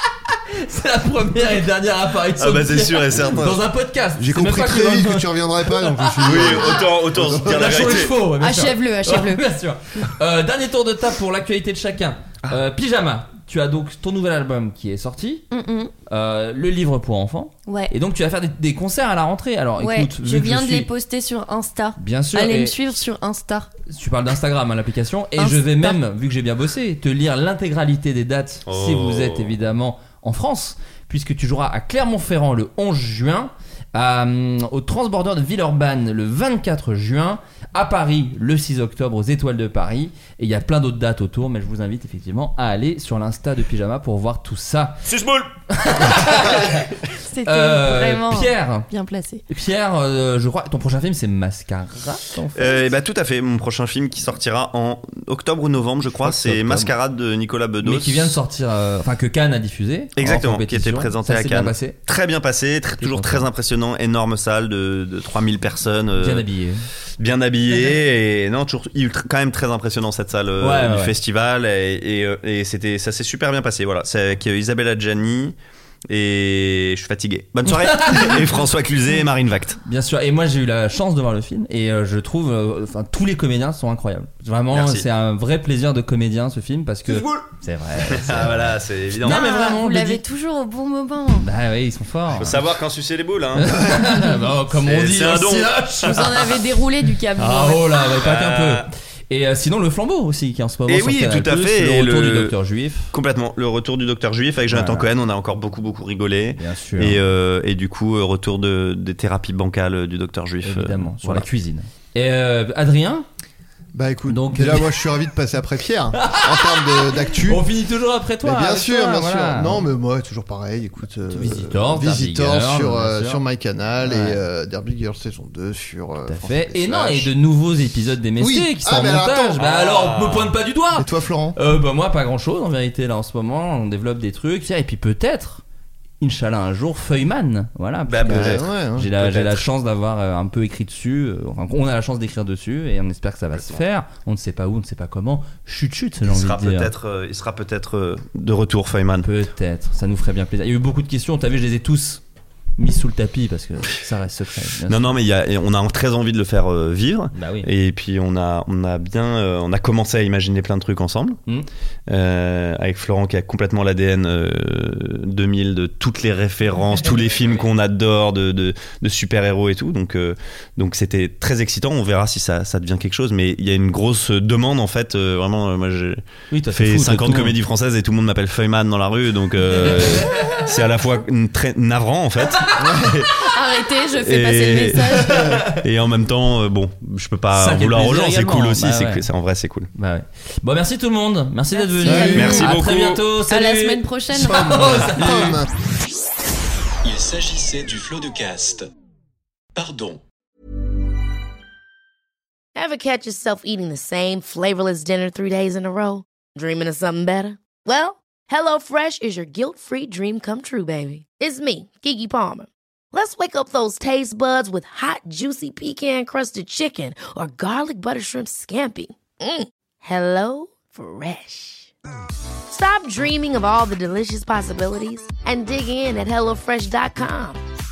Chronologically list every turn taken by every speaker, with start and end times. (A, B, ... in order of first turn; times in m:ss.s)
0:00.5-0:15.4 A
0:02.4-0:03.6 B
0:04.2-0:08.1 C
0:06.2-0:08.2 B
0:08.4-0:09.4 D
0:15.5-0:15.9 D
0:16.1-0:20.9 A
0:17.6-0:17.9 D
0:19.8-0:23.7 D
0:22.0-0:22.8 A
0:23.9-0:45.0 A
0:25.4-0:26.0 D
0:28.7-0:29.5 B
0:45.0-0:46.3 B
0:45.7-0:48.9 A
0:47.2-0:49.4 D
0:49.5-0:52.9 A
0:52.5-0:58.3 B
0:56.2-0:56.9 A
0:57.8-1:02.0 A
1:00.2-1:06.4 B
1:03.0-1:03.5 A
1:06.2-1:06.8 A
1:07.2-1:15.5 B
1:10.6-1:11.1 A
1:16.1-1:19.8 B
1:17.9-1:18.4 A
1:19.8-1:30.2 A
1:24.7-1:25.0 B
1:28.1-1:29.5 B
1:29.2-1:31.5 D
1:31.4-1:32.6 A
1:32.3-1:34.0 B
1:33.5-1:36.3 A
1:34.8-1:36.6 B
1:36.1-1:38.0 D
1:37.4-1:43.1 A
1:38.2-1:38.9 B
1:40.9-1:42.5 B
1:43.1-1:51.4 B
1:44.7-1:45.1 A
1:46.6-1:47.2 A
1:50.6-1:53.2 A
1:53.9-1:57.7 C
1:54.3-1:55.0 A
1:56.1-1:59.8 A
1:58.4-2:07.3 C
2:01.3-2:03.4 A
2:04.0-2:04.4 A
2:06.2-2:15.6 A
2:08.4-2:09.6 C
2:09.6-2:10.5 B
2:10.9-2:11.6 C
2:16.2-2:26.9 A
2:18.1-2:19.6 B
2:18.2-2:19.1 C
2:26.2-2:29.3 B
2:29.2-2:32.2 A
2:32.8-2:35.1 A
2:34.9-2:41.4 B
2:37.3-2:37.7 A
2:42.1-2:56.2 B
2:56.5-2:57.6 A
2:56.7-3:03.3 B
2:59.7-3:00.6 A
3:02.8-3:03.2 C
3:03.4-3:05.5 D
3:04.2-3:09.9 B
3:05.2-3:05.6 C
3:05.4-3:05.8 A
3:07.5-3:09.2 A
3:10.0-3:15.6 A
3:11.7-3:12.7 D
3:12.0-3:12.6 C
3:12.3-3:13.2 B
3:13.5-3:15.4 D
3:14.3-3:15.7 C
3:17.0-3:18.9 E
3:19.7-3:20.2 E
3:22.7-3:41.9 F
3:42.7-3:47.6 F